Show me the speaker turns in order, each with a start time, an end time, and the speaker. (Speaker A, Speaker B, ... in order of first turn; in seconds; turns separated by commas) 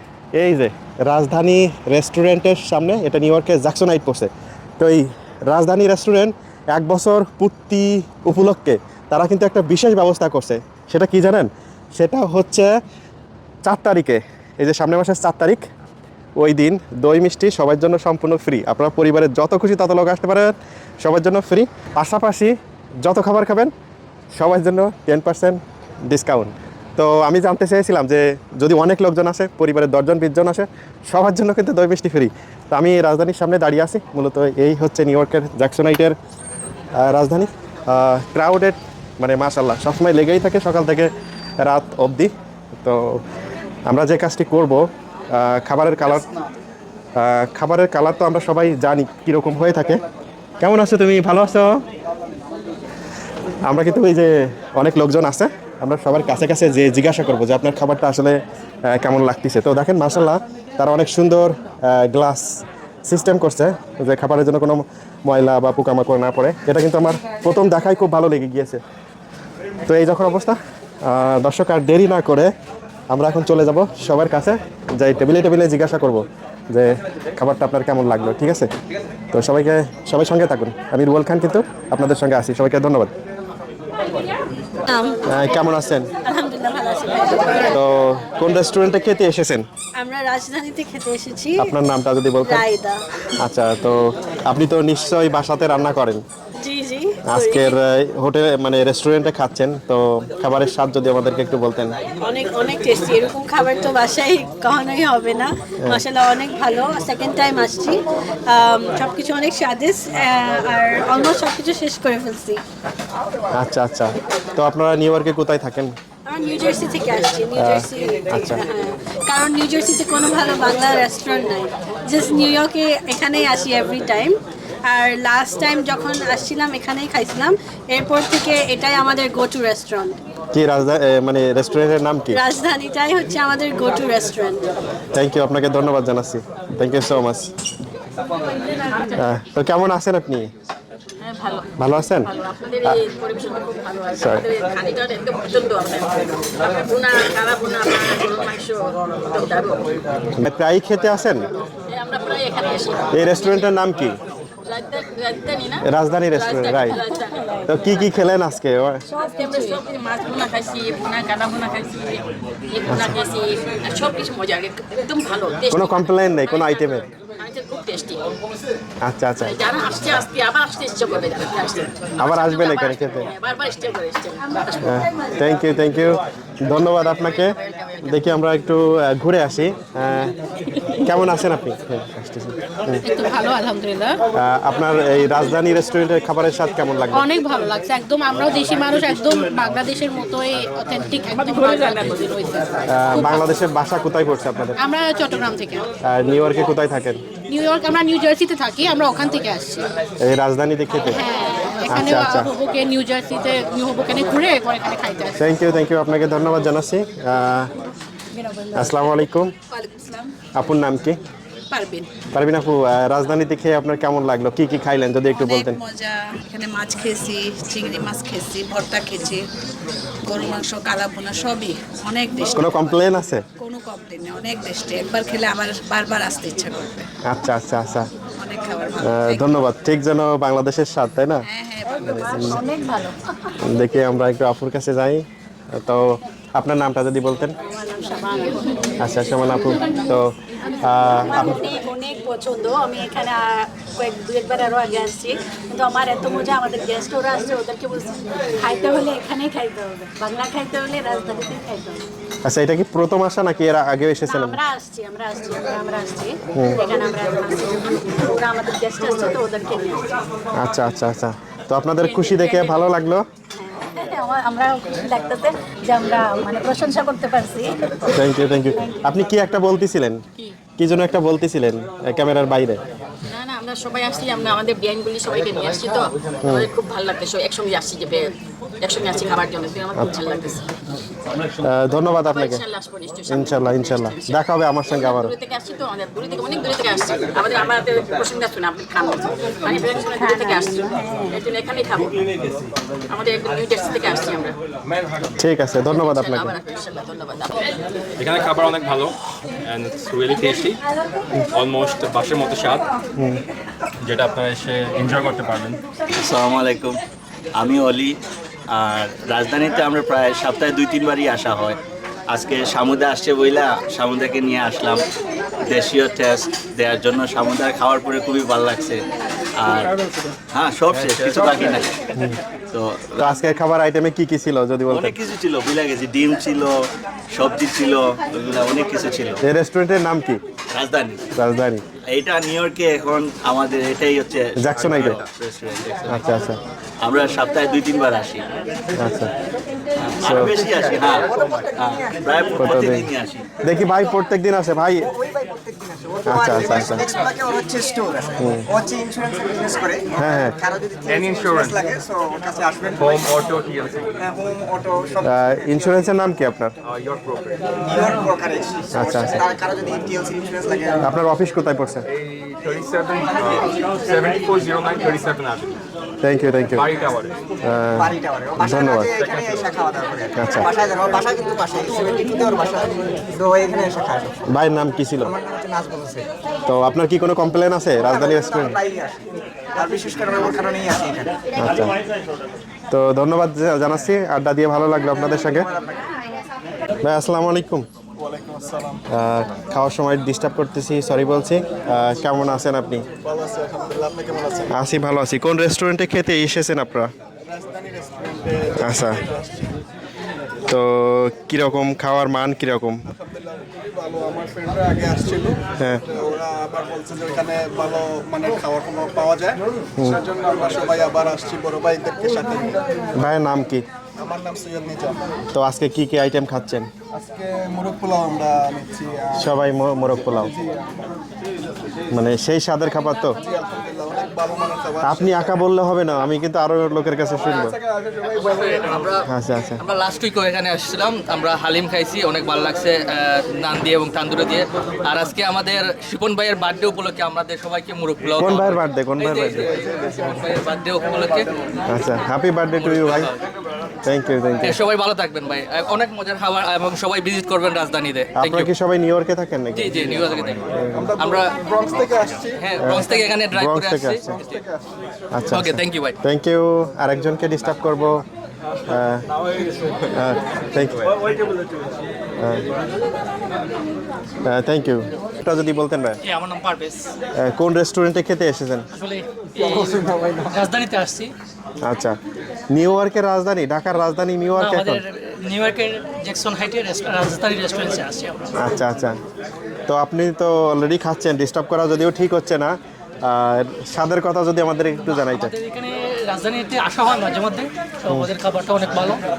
Speaker A: 0.4-12.7, Speaker A: 13.6-15.6, Speaker A: 16.4-23.7, Speaker A: 24.4-36.1, Speaker A: 37.0-41.1, Speaker A: 41.6-42.3, Speaker A: 42.8-43.2, Speaker A: 43.9-46.2, Speaker A: 47.2-50.0, Speaker A: 50.6-51.8, Speaker A: 53.6-68.8, Speaker A: 69.8-72.5, Speaker A: 73.1-78.7, Speaker A: 79.3-83.1, Speaker B: 84.9-85.6, Speaker A: 85.3-86.1, Speaker B: 86.2-87.8, Speaker A: 87.7-89.6, Speaker B: 90.0-91.7, Speaker A: 91.6-92.7, Speaker B: 92.4-93.0, Speaker A: 93.4-96.2, Speaker B: 96.6-97.7, Speaker A: 97.3-102.0, Speaker B: 102.2-112.6, Speaker A: 113.5-115.9, Speaker B: 116.2-130.2, Speaker A: 117.5-118.6, Speaker A: 130.5-132.4, Speaker B: 132.3-134.6, Speaker A: 135.1-137.5, Speaker A: 139.1-140.5, Speaker C: 141.2-141.7, Speaker A: 141.8-142.3, Speaker C: 142.2-149.9, Speaker A: 144.2-144.5, Speaker A: 150.4-151.5, Speaker C: 151.9-153.7, Speaker A: 153.1-154.2, Speaker C: 154.6-158.2, Speaker A: 155.8-157.0, Speaker A: 157.7-159.0, Speaker C: 159.2-168.2, Speaker A: 162.9-163.2, Speaker A: 165.7-167.1, Speaker A: 169.0-169.6, Speaker C: 169.4-174.8, Speaker A: 172.2-173.3, Speaker A: 174.8-180.3, Speaker C: 176.9-178.3, Speaker A: 180.9-183.0, Speaker D: 183.0-184.2, Speaker A: 184.3-187.3, Speaker D: 187.1-193.3, Speaker C: 191.4-192.1, Speaker A: 192.9-194.8, Speaker D: 194.8-195.9, Speaker A: 196.0-197.2, Speaker D: 197.5-199.9, Speaker A: 200.2-201.2, Speaker D: 201.1-205.4, Speaker A: 201.8-202.5, Speaker A: 205.4-207.7, Speaker A: 208.7-209.5, Speaker E: 209.7-210.2, Speaker A: 210.5-211.2, Speaker E: 211.7-212.1, Speaker A: 212.3-215.8, Speaker E: 215.3-219.4, Speaker E: 220.2-222.7, Speaker A: 222.5-223.4, Speaker E: 223.6-227.1, Speaker A: 227.3-228.1, Speaker E: 228.4-229.3, Speaker A: 229.0-232.6, Speaker E: 231.5-231.9, Speaker B: 232.2-233.2, Speaker A: 233.6-237.6, Speaker B: 237.6-238.9, Speaker A: 239.0-241.7, Speaker B: 241.2-252.0, Speaker A: 252.4-254.6, Speaker B: 254.2-260.1, Speaker A: 256.5-256.8, Speaker A: 260.6-263.2, Speaker C: 262.0-262.9, Speaker B: 263.6-267.8, Speaker A: 268.1-270.2, Speaker A: 270.8-272.8, Speaker C: 273.3-278.3, Speaker C: 278.8-280.7, Speaker A: 281.6-282.6, Speaker C: 282.2-292.2, Speaker A: 283.3-285.3, Speaker B: 290.1-291.4, Speaker C: 293.1-294.5, Speaker A: 295.4-296.5, Speaker C: 295.9-297.7, Speaker F: 298.2-299.1, Speaker F: 299.7-300.8, Speaker F: 301.6-302.8, Speaker A: 303.2-303.4, Speaker F: 304.0-305.8, Speaker G: 306.2-306.9, Speaker G: 307.6-308.1, Speaker G: 308.7-311.8, Speaker G: 312.3-315.1, Speaker G: 315.7-319.0, Speaker G: 319.6-319.9, Speaker G: 320.5-321.9, Speaker F: 320.9-321.7, Speaker G: 322.7-323.3, Speaker A: 323.2-325.2, Speaker G: 324.9-329.4, Speaker A: 329.4-330.4, Speaker G: 330.7-331.2, Speaker A: 331.3-331.8, Speaker G: 332.1-336.2, Speaker A: 334.6-335.2, Speaker A: 336.1-336.6, Speaker G: 337.0-338.4, Speaker A: 339.0-339.3, Speaker G: 340.0-343.4, Speaker A: 340.2-340.6, Speaker H: 341.0-342.6, Speaker A: 342.6-343.1, Speaker A: 343.6-345.1, Speaker H: 345.0-353.4, Speaker A: 346.2-347.1, Speaker A: 348.4-348.7, Speaker A: 350.2-350.6, Speaker F: 353.2-353.9, Speaker H: 354.2-355.3, Speaker A: 355.3-356.7, Speaker F: 357.0-357.4, Speaker H: 357.8-361.1, Speaker A: 358.9-359.4, Speaker A: 361.0-362.0, Speaker F: 362.2-363.5, Speaker F: 364.1-365.6, Speaker A: 366.2-366.9, Speaker A: 367.6-369.1, Speaker H: 368.0-374.4, Speaker A: 370.4-370.7, Speaker A: 374.5-375.3, Speaker H: 375.2-376.3, Speaker A: 376.6-378.8, Speaker H: 378.0-381.4, Speaker A: 381.6-381.9, Speaker A: 382.9-385.7, Speaker H: 385.1-386.0, Speaker A: 387.0-387.9, Speaker I: 388.2-389.0, Speaker A: 389.1-393.1, Speaker I: 393.2-394.7, Speaker A: 394.7-397.1, Speaker I: 397.5-399.7, Speaker A: 398.8-399.2, Speaker A: 400.7-403.0, Speaker I: 403.2-412.8, Speaker A: 413.2-413.8, Speaker I: 414.2-415.2, Speaker A: 415.5-416.9, Speaker I: 417.1-419.5, Speaker A: 419.4-420.5, Speaker I: 420.4-421.0, Speaker A: 422.1-423.4, Speaker I: 423.4-425.5, Speaker A: 425.0-427.8, Speaker J: 428.3-429.3, Speaker A: 429.2-429.8, Speaker J: 429.8-441.5, Speaker A: 438.4-439.7, Speaker A: 441.9-443.3, Speaker J: 442.7-443.3, Speaker A: 444.0-444.8, Speaker J: 444.6-448.7, Speaker A: 448.3-451.1, Speaker J: 449.7-450.6, Speaker I: 450.9-452.9, Speaker J: 451.2-454.6, Speaker A: 452.8-454.3, Speaker I: 454.3-454.8, Speaker A: 455.3-458.2, Speaker J: 455.5-456.1, Speaker A: 458.9-459.2, Speaker A: 460.1-461.1, Speaker A: 462.4-462.6, Speaker A: 464.4-466.2, Speaker K: 466.2-467.1, Speaker A: 467.3-468.9, Speaker K: 468.9-471.3, Speaker A: 471.8-472.1, Speaker A: 472.7-475.0, Speaker K: 474.6-478.5, Speaker A: 478.6-479.2, Speaker A: 479.9-485.5, Speaker K: 485.2-489.2